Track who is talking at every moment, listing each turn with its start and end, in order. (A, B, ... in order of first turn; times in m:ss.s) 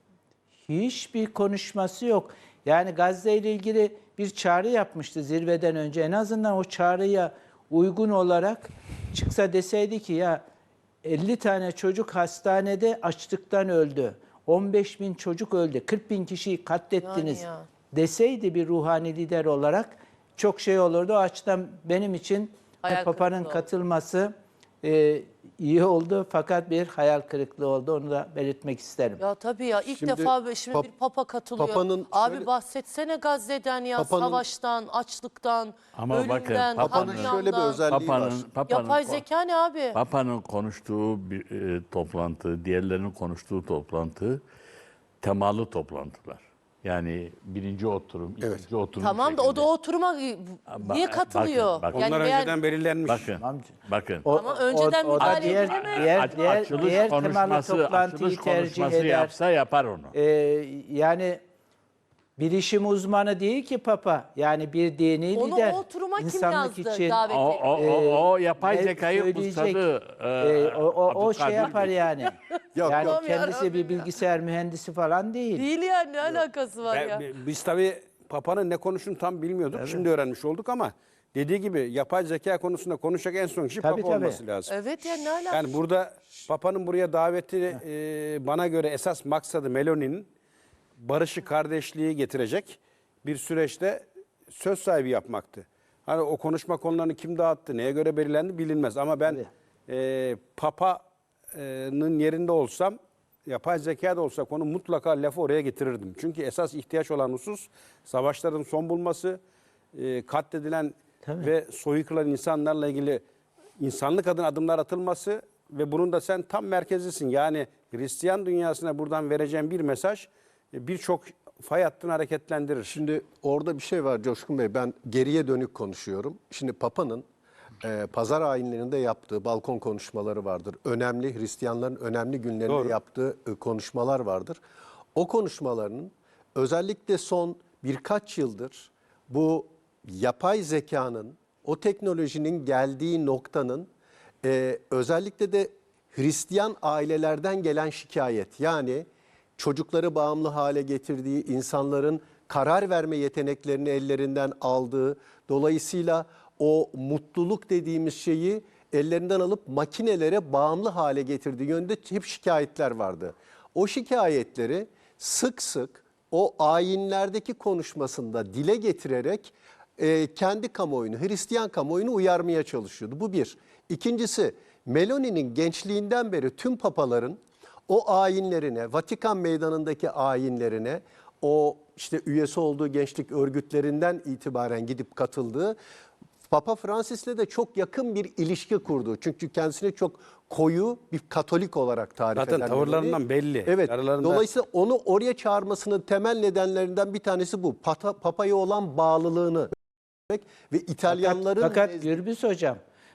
0:00.7-0:10.4 A
0:11.0-0:29.2 A
0:17.0-0:17.7 B
0:22.8-0:23.6 B
0:29.2-0:37.8 B
0:30.0-0:30.9 C
0:31.6-0:32.5 C
0:34.0-0:34.4 C
0:35.9-0:37.3 D
0:36.8-0:38.5 C
0:37.9-0:39.2 D
0:38.7-0:40.0 B
0:39.9-0:44.4 D
0:45.2-0:49.7 D
0:49.0-0:52.5 B
0:50.7-0:52.0 D
0:51.9-0:53.3 E
0:53.0-0:54.2 D
0:53.4-0:53.7 A
0:54.2-0:59.3 A
0:54.3-0:57.1 B
0:55.2-1:00.1 D
0:55.2-0:55.6 E
1:00.1-1:01.4 A
1:02.4-1:07.2 A
1:05.3-1:07.7 B
1:07.3-1:12.0 D
1:07.7-1:09.8 A
1:10.4-1:12.3 A
1:12.7-1:13.4 C
1:12.8-1:15.6 A
1:13.0-1:14.1 B
1:15.5-1:17.2 B
1:16.9-1:24.7 E
1:23.8-1:24.4 A
1:24.7-1:25.7 B
1:25.5-1:30.3 E
1:31.0-1:49.4 E
1:49.9-1:53.2 E
1:53.8-2:03.0 E
2:02.9-2:07.2 C
2:07.8-2:14.6 C
2:12.7-2:13.0 E
2:15.1-2:23.9 C
2:24.4-3:05.8 C
3:06.5-3:19.7 C
3:12.4-3:14.4 E
3:20.3-3:22.2 C
3:21.1-3:22.8 A